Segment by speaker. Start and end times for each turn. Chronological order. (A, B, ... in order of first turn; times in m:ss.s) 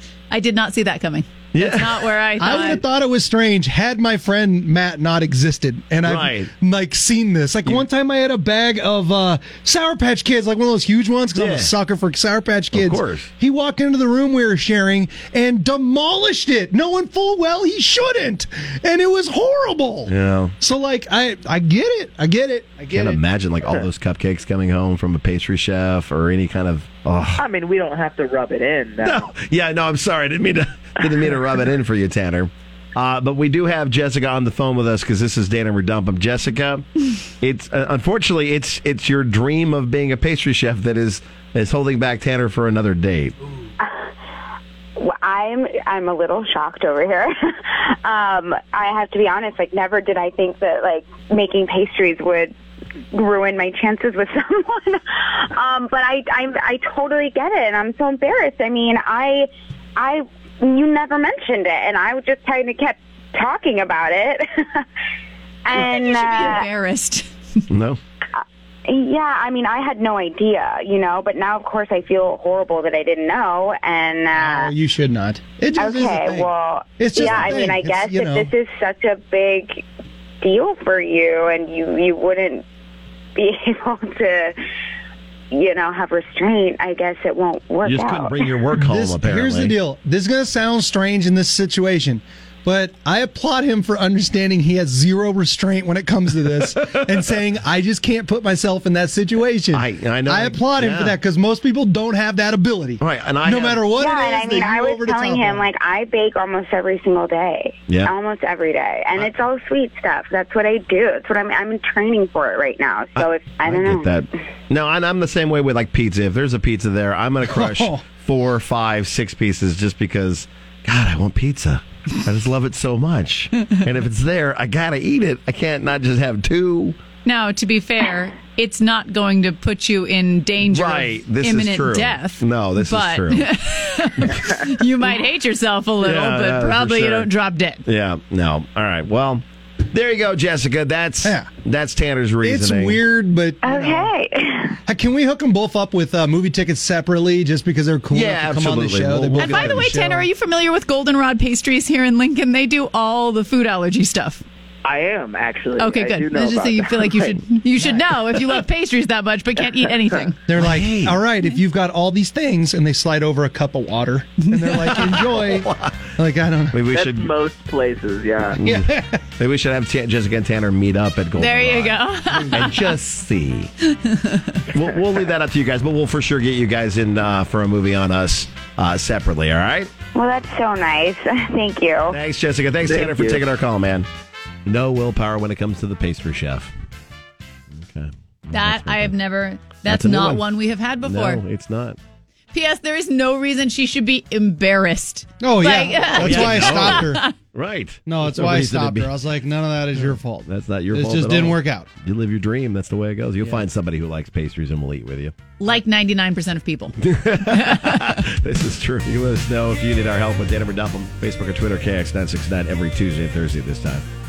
0:00.3-0:02.8 A
0:01.5-0:02.0 B
0:02.4-0:23.1 C
0:06.0-0:06.5 B
0:11.4-0:11.7 B
0:12.7-0:13.3 B
0:20.1-0:20.5 B
0:22.9-0:27.4 B
0:27.4-0:29.3 D
0:29.0-0:36.8 B
0:37.4-0:43.4 B
0:43.8-0:44.0 E
0:45.0-0:52.5 E
0:53.1-1:04.8 E
1:05.6-1:06.7 E
1:05.7-1:07.6 A
1:07.7-1:08.0 B
1:08.3-1:14.7 E
1:14.3-1:18.5 C
1:15.7-1:19.8 E
1:20.4-1:22.6 E
1:23.4-1:24.6 E
1:25.5-1:28.5 E
1:27.8-1:29.8 B
1:28.8-1:45.7 C
1:39.7-1:41.2 B
1:43.0-1:43.8 B
1:43.9-1:54.1 E
1:47.9-1:48.1 B
1:53.2-2:07.0 B
1:57.5-1:58.0 C
2:07.2-2:17.8 A
2:10.6-2:13.4 B
2:16.0-2:17.3 B
2:17.8-2:23.0 B
2:21.2-2:21.5 C
2:22.4-2:24.1 C
2:23.6-2:24.8 E
2:24.9-2:30.3 C
2:28.1-2:29.8 B
2:29.4-2:34.4 A
2:34.8-2:37.4 D
2:35.8-2:40.4 A
2:40.5-2:46.8 C
2:40.6-2:41.2 B
2:44.8-2:46.1 B
2:46.7-2:47.3 B
2:46.9-2:48.6 D
2:48.6-2:52.0 B
2:48.6-2:49.2 C
2:51.4-2:52.9 A
2:52.5-2:53.7 B
2:54.1-2:54.5 A
2:54.7-2:59.9 B
3:00.1-3:02.2 E
3:02.1-3:04.1 B
3:02.8-3:03.4 D
3:04.6-3:06.7 B
3:07.8-3:09.1 B
3:08.5-3:11.4 A
3:09.8-3:10.4 B
3:11.0-3:12.0 B
3:12.5-3:17.3 A
3:15.4-3:17.2 C
3:16.1-3:19.1 B
3:18.1-3:21.9 C
3:20.0-3:25.3 B
3:25.6-3:28.2 A
3:27.0-3:34.0 B